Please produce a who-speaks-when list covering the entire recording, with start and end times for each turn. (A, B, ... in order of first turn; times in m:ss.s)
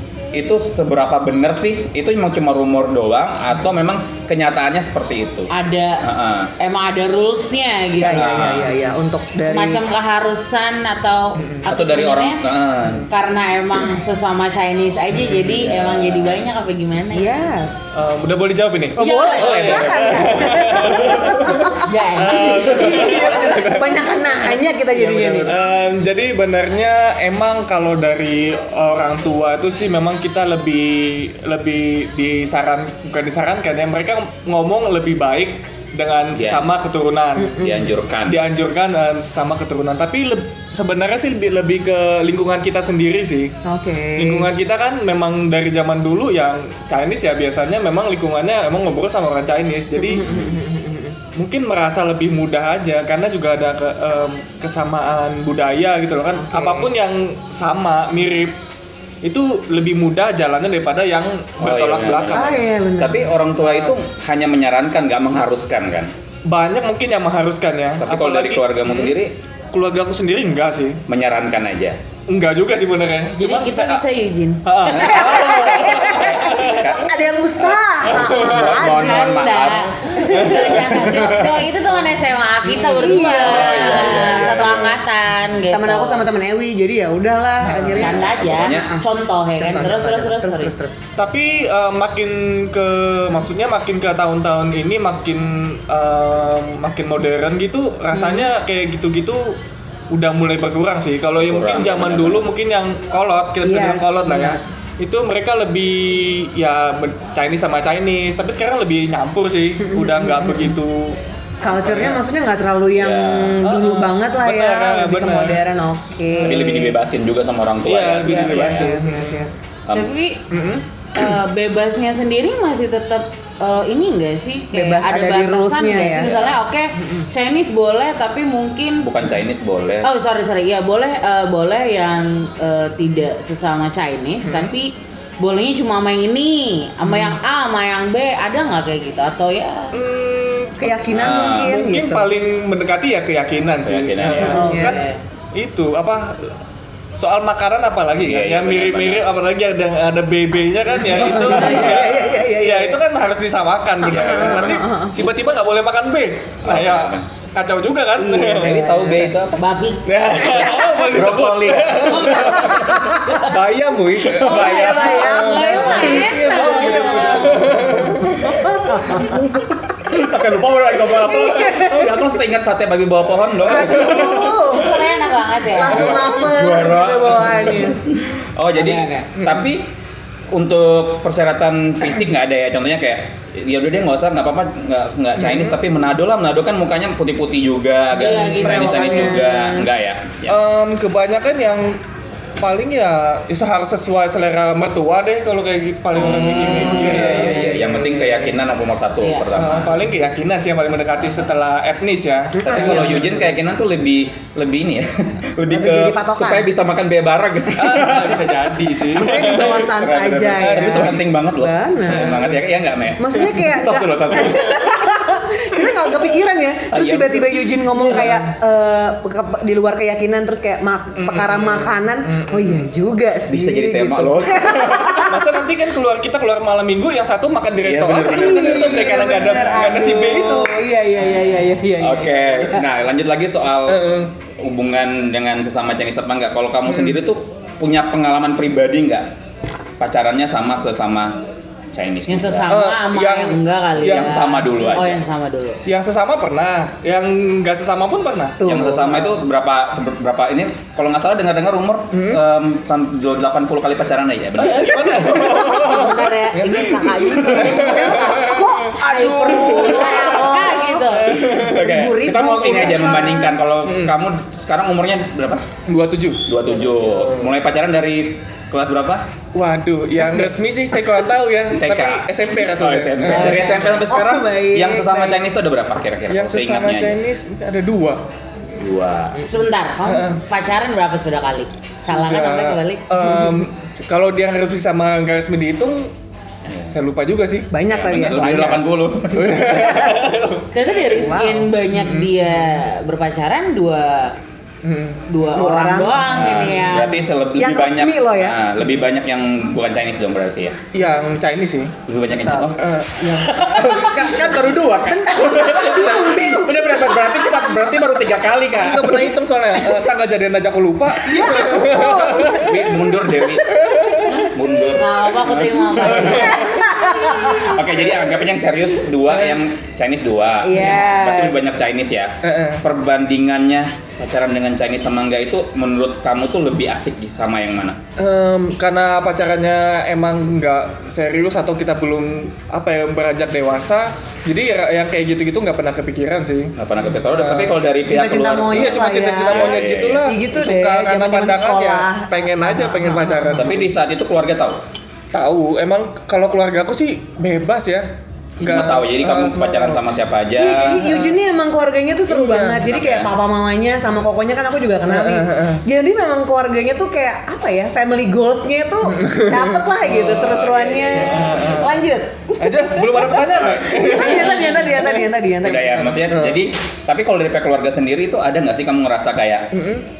0:00.3-0:05.5 A
0:05.5-0:06.0 B
0:06.0-0:06.5 A
0:06.6-0:08.6 B
0:08.0-0:09.8 C
0:08.0-0:08.8 A
0:09.4-0:12.4 B
0:11.4-0:11.6 D
0:11.6-0:13.1 A
0:13.1-0:17.3 B
0:15.1-0:15.6 D
0:15.5-0:16.4 A
0:17.1-0:17.9 C
0:17.9-0:24.4 D
0:19.0-0:21.8 C
0:19.0-0:20.1 B
0:21.1-0:21.3 A
0:21.8-0:23.5 B
0:22.4-0:25.6 C
0:24.9-0:25.6 A
0:25.4-0:37.6 D
0:36.3-0:36.6 A
0:37.4-0:37.9 C
0:37.6-0:38.4 A
0:38.2-0:43.5 D
0:43.6-0:44.5 C
0:44.2-0:50.2 D
0:50.0-0:51.2 C
0:50.2-0:50.5 A
0:51.3-0:58.5 D
0:56.5-0:56.9 C
0:59.2-1:02.6 D
1:01.6-1:06.1 A
1:02.3-1:03.3 C
1:03.6-1:03.9 D
1:06.5-1:09.2 D
1:08.0-1:09.3 A
1:09.7-1:11.0 D
1:11.1-1:12.0 A
1:12.3-1:14.0 D
1:13.4-1:14.6 B
1:14.6-1:16.9 D
1:14.8-1:21.4 A
1:14.9-1:19.4 C
1:18.0-1:18.8 D
1:18.8-1:26.2 B
1:20.2-1:21.3 D
1:22.6-1:24.4 D
1:23.0-1:24.7 C
1:23.4-1:25.0 A
1:25.7-1:29.0 C
1:27.6-1:28.0 D
1:27.9-1:30.7 B
1:28.0-1:28.9 A
1:29.6-1:31.0 C
1:31.2-1:39.6 D
1:38.1-1:38.5 C
1:40.1-1:51.2 D
1:41.4-1:42.5 A
1:43.6-1:44.6 C
1:49.9-1:50.8 C
1:51.6-1:56.9 C
1:51.8-1:52.2 D
1:53.0-1:53.6 A
1:53.6-1:55.6 D
1:56.3-1:56.9 D
1:56.4-1:58.9 A
1:57.8-1:59.4 D
1:58.2-1:59.6 C
1:59.9-2:00.4 B
2:00.5-2:00.8 D
2:01.1-2:09.1 B
2:04.7-2:06.4 C
2:09.0-2:10.1 A
2:10.0-2:19.9 B
2:14.4-2:14.7 D
2:19.9-2:26.6 D
2:20.8-2:22.3 C
2:21.1-2:21.7 A
2:23.8-2:24.7 A
2:24.5-2:25.0 C
2:24.6-2:25.2 B
2:27.2-2:38.9 D
2:28.2-2:29.2 A
2:31.0-2:33.0 C
2:31.3-2:32.1 A
2:34.0-2:35.2 C
2:34.0-2:34.8 A
2:36.6-2:37.2 A
2:38.2-2:39.4 C
2:38.5-2:39.6 A
2:39.6-2:40.8 B
2:40.0-2:48.7 D
2:41.0-2:43.1 A
2:42.0-2:43.6 B
2:44.3-2:49.5 C
2:44.3-2:47.9 B
2:46.4-2:47.6 A
2:48.1-2:54.6 A
2:51.1-2:52.3 C
2:53.6-2:58.0 C
2:53.9-2:54.2 D
2:54.2-2:56.2 B
2:55.8-2:59.9 A
2:58.8-2:59.3 B
3:00.5-3:10.6 A
3:08.1-3:09.4 B
3:08.4-3:09.9 C
3:10.5-3:12.0 D
3:12.6-3:17.8 D
3:16.1-3:20.0 A
3:16.6-3:18.3 C
3:19.2-3:19.5 B
3:19.5-3:23.5 D
3:22.6-3:23.3 C
3:22.6-3:28.6 A
3:25.7-3:26.7 C
3:27.8-3:31.1 D
3:29.1-3:32.4 C
3:29.7-3:34.9 A
3:32.1-3:32.6 D
3:33.2-3:45.6 C
3:36.9-3:37.7 A
3:38.0-3:38.5 D
3:41.2-3:42.9 D
3:43.5-3:45.3 A
3:45.2-3:50.8 D
3:47.8-3:50.0 A
3:48.2-3:52.9 C
3:52.0-3:59.3 A
3:53.9-3:54.3 D
3:56.8-3:57.2 D
4:00.0-4:01.4 A
4:01.9-4:02.7 A
4:02.3-4:05.8 B
4:02.7-4:04.6 D
4:04.0-4:05.2 A
4:05.8-4:08.6 D
4:08.6-4:09.4 C
4:08.6-4:16.0 A
4:12.1-4:12.4 D
4:14.6-4:18.8 D
4:15.4-4:21.3 B
4:17.5-4:23.6 C
4:19.5-4:20.2 D
4:21.0-4:21.9 D
4:21.4-4:25.7 A
4:23.0-4:23.3 D
4:23.8-4:24.2 D
4:25.9-4:26.4 D
4:26.4-4:29.3 A
4:29.5-4:33.8 D
4:30.2-4:30.5 C
4:31.7-4:37.2 A
4:33.3-4:34.0 B
4:34.1-4:35.4 C
4:36.3-4:38.2 D
4:38.8-4:39.4 A
4:39.4-4:43.1 B
4:40.0-4:40.4 D
4:42.0-4:46.1 D
4:46.7-4:46.9 A
4:46.9-4:47.7 D
4:47.7-4:48.8 C
4:47.9-4:49.9 A
4:48.3-4:52.8 D
4:49.7-4:50.3 C
4:50.7-4:54.4 B
4:51.1-4:51.7 C
4:54.8-4:55.2 D
4:55.3-4:57.2 B
4:55.5-4:56.5 C
4:56.3-5:00.8 A
4:57.5-4:58.6 C
5:00.9-5:01.9 D
5:02.1-5:02.8 A
5:02.4-5:02.7 C
5:02.8-5:04.0 D
5:03.4-5:09.3 A
5:05.0-5:07.7 C
5:08.7-5:12.8 D
5:11.2-5:12.8 C
5:12.4-5:16.6 A
5:13.6-5:14.4 D
5:15.0-5:16.7 B
5:16.0-5:16.8 D
5:16.4-5:17.8 C
5:17.4-5:28.0 A
5:19.3-5:19.6 D
5:20.6-5:21.6 C
5:22.4-5:22.8 D
5:28.2-5:37.8 D
5:36.8-5:40.3 A
5:38.0-5:43.8 C
5:38.7-5:43.9 D
5:43.6-5:44.8 A
5:45.3-5:48.1 D
5:48.6-5:51.1 A
5:48.6-5:50.0 D
5:50.5-6:06.1 C
5:51.0-5:51.3 D
5:52.3-5:52.8 D
5:52.8-5:53.3 A
5:55.1-5:55.8 D
5:59.1-6:00.5 D
6:00.3-6:01.7 A
6:01.2-6:02.0 D
6:02.6-6:05.3 D
6:03.4-6:04.0 A
6:05.6-6:09.7 A
6:06.0-6:06.6 D
6:09.7-6:10.0 D